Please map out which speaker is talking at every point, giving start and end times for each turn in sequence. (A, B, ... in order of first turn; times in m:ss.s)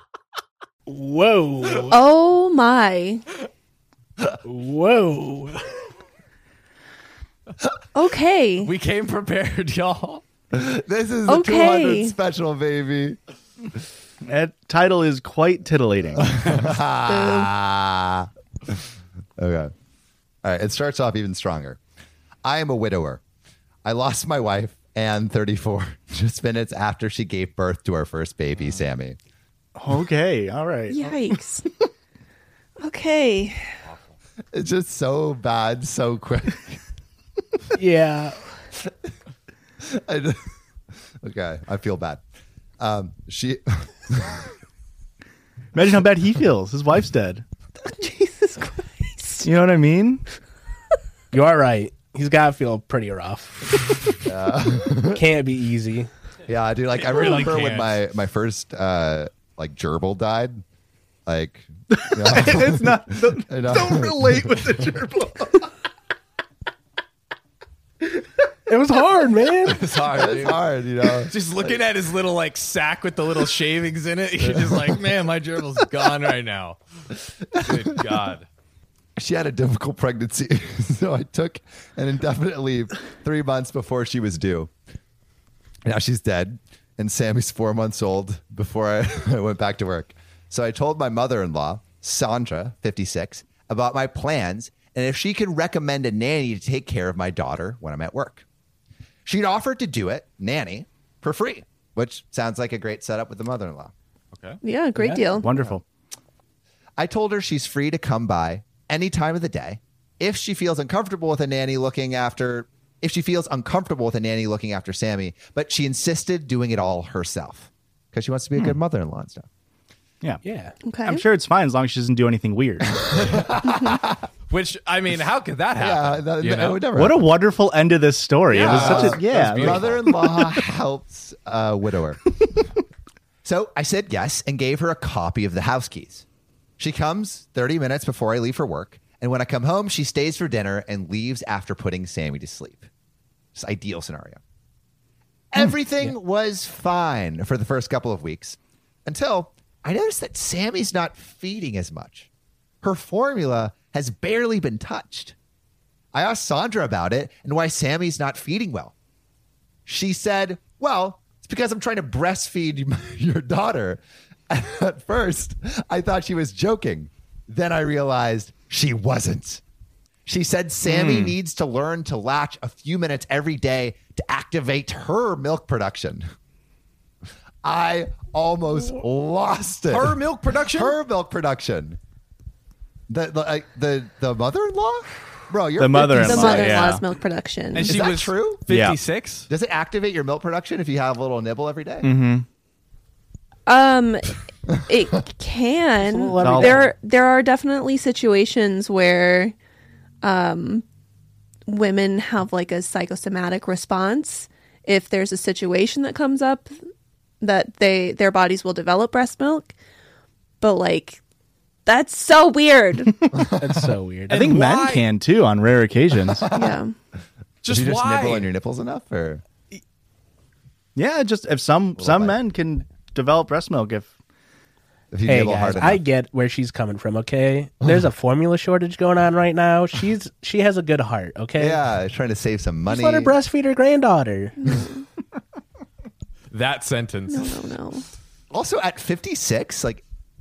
0:00.9-0:02.0 A
0:01.9-0:03.2 B
0:04.4-0:05.9 A
0:07.9-0:08.7 B
0:08.6-0:10.2 C
0:10.5-0:13.2 D
0:11.3-0:12.2 B
0:14.2-0:16.5 E
0:16.2-0:18.3 D
0:17.1-0:17.5 B
0:19.4-0:19.7 D
0:20.4-0:21.8 D
0:22.4-0:23.2 D
0:23.8-0:29.2 D
0:29.8-0:31.2 E
0:30.9-0:31.8 B
0:32.8-0:33.7 B
0:34.5-0:36.8 D
0:37.7-0:38.4 A
0:39.8-0:40.4 D
0:41.2-0:42.2 D
0:42.8-0:44.4 D
0:45.7-0:47.4 E
0:47.8-0:49.5 B
0:49.4-0:50.2 E
0:51.3-0:54.2 A
0:54.2-0:55.2 D
0:55.0-0:56.1 A
0:56.4-1:00.6 D
0:57.0-0:58.0 C
1:01.2-1:04.7 D
1:01.9-1:05.6 E
1:08.6-1:09.8 A
1:09.6-1:10.6 C
1:10.1-1:11.7 D
1:11.2-1:16.8 C
1:17.5-1:18.5 C
1:19.2-1:24.7 D
1:25.8-1:38.4 D
1:39.2-1:43.9 D
1:44.3-1:44.6 C
1:44.6-1:45.5 B
1:45.0-1:45.3 A
1:45.4-1:45.8 E
1:47.0-1:59.5 D
2:00.4-2:00.7 A
2:00.8-2:01.2 B
2:01.0-2:02.9 E
2:03.0-2:04.2 D
2:04.5-2:06.8 C
2:05.8-2:07.2 D
2:06.9-2:10.3 E
2:08.5-2:10.1 C
2:08.5-2:12.2 D
2:13.4-2:16.2 D
2:16.8-2:22.9 D
2:23.5-2:24.4 D
2:25.5-2:32.3 D
2:32.8-2:35.4 D
2:36.1-2:38.9 D
2:39.8-2:49.6 D
2:50.2-2:56.2 D
2:50.8-2:51.4 E
2:57.6-3:00.2 D
2:59.9-3:01.0 C
3:00.7-3:02.0 D
3:03.1-3:06.9 D
3:05.8-3:07.0 E
3:06.2-3:07.9 B
3:07.7-3:09.5 C
3:07.8-3:08.6 D
3:08.7-3:09.0 E
3:09.5-3:12.1 D
3:12.0-3:12.4 E
3:13.7-3:19.5 B
3:16.0-3:16.9 A
3:16.4-3:16.9 E
3:20.2-3:20.8 B
3:21.7-3:26.7 B
3:27.4-3:29.7 B
3:30.6-3:31.2 B
3:31.8-3:33.3 B
3:33.3-3:33.8 D
3:33.6-3:34.5 A
3:34.3-3:36.4 E
3:34.3-3:35.0 C
3:36.5-3:36.9 B
3:37.6-3:38.5 C
3:37.7-3:39.4 D
3:40.9-3:44.1 E
3:42.0-3:42.4 D
3:45.1-3:46.0 D
3:45.2-3:51.8 A
3:51.6-3:53.3 D
3:52.8-3:54.7 A
3:54.6-3:55.0 B
3:56.5-3:57.5 C
3:57.3-3:58.0 B
3:58.5-4:00.0 D